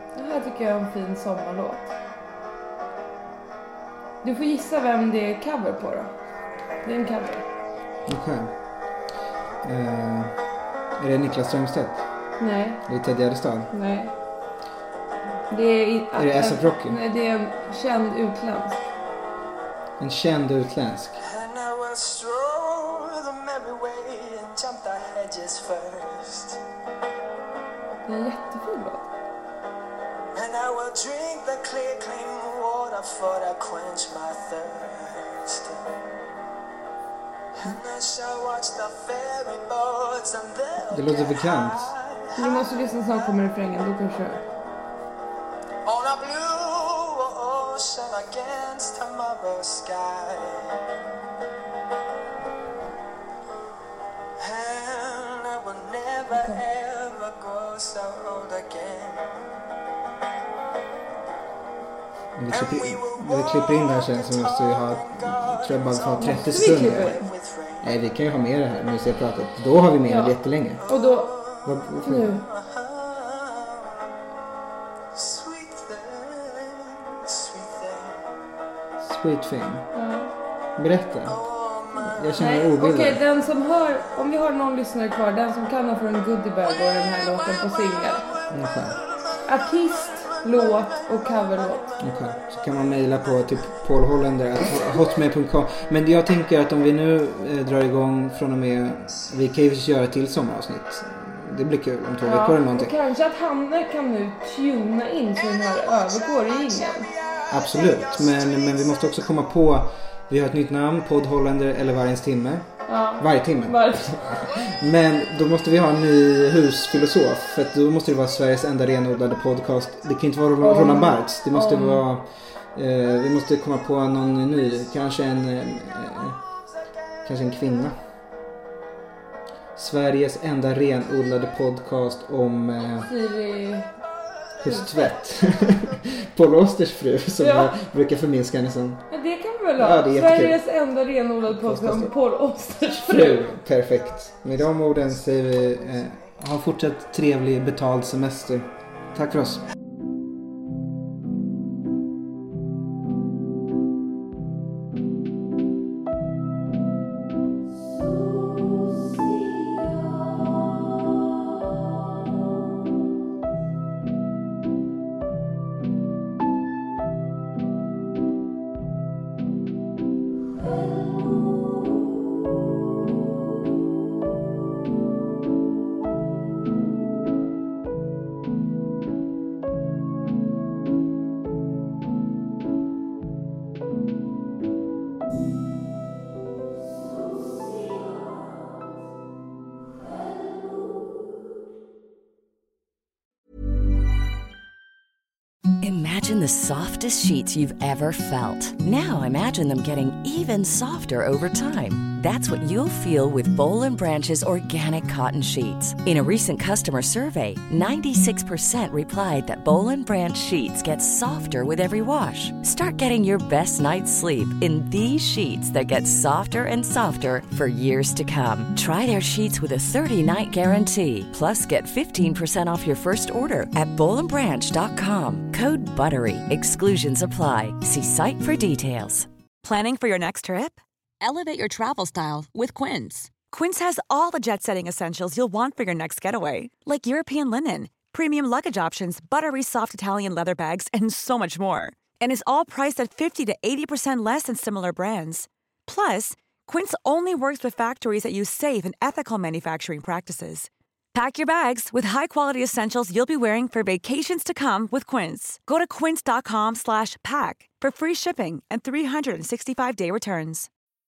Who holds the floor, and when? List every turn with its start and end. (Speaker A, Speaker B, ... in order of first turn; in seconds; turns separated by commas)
Speaker A: 0.1-1.8, Speaker A: 4.2-6.1, Speaker A: 6.8-7.5, Speaker B: 8.1-8.5, Speaker B: 9.6-10.3, Speaker B: 11.0-12.0, Speaker A: 12.4-12.8, Speaker B: 12.8-13.7, Speaker A: 13.7-14.1, Speaker A: 15.5-18.8, Speaker B: 16.1-17.0, Speaker B: 20.0-21.2, Speaker C: 21.2-26.6, Speaker A: 28.1-29.1, Speaker C: 30.3-35.8, Speaker C: 37.6-43.3, Speaker B: 40.9-41.9, Speaker A: 42.4-44.4, Speaker C: 45.8-50.8, Speaker C: 54.4-59.4, Speaker A: 56.3-56.6, Speaker B: 62.4-67.2, Speaker C: 62.5-67.9, Speaker A: 66.2-67.3, Speaker B: 67.8-70.8, Speaker A: 70.1-71.3, Speaker C: 70.8-74.0, Speaker B: 71.6-72.4, Speaker A: 72.0-72.4, Speaker C: 75.1-78.2, Speaker B: 79.0-79.9, Speaker A: 79.9-80.3, Speaker B: 80.8-81.4, Speaker C: 81.2-82.3, Speaker B: 82.0-83.2, Speaker A: 82.3-88.3, Speaker B: 88.5-89.0, Speaker A: 89.4-91.9, Speaker B: 92.0-102.9, Speaker A: 102.2-107.1, Speaker C: 105.4-109.3, Speaker B: 107.5-112.7, Speaker A: 112.9-114.2, Speaker B: 113.2-126.4, Speaker A: 120.6-122.0, Speaker B: 127.2-128.0, Speaker B: 129.8-133.1, Speaker A: 133.1-133.9, Speaker B: 134.6-139.0, Speaker A: 137.4-137.7, Speaker A: 139.1-143.4, Speaker B: 139.8-140.6, Speaker B: 141.5-142.1, Speaker B: 143.1-149.7, Speaker D: 195.8-229.3, Speaker E: 229.6-260.7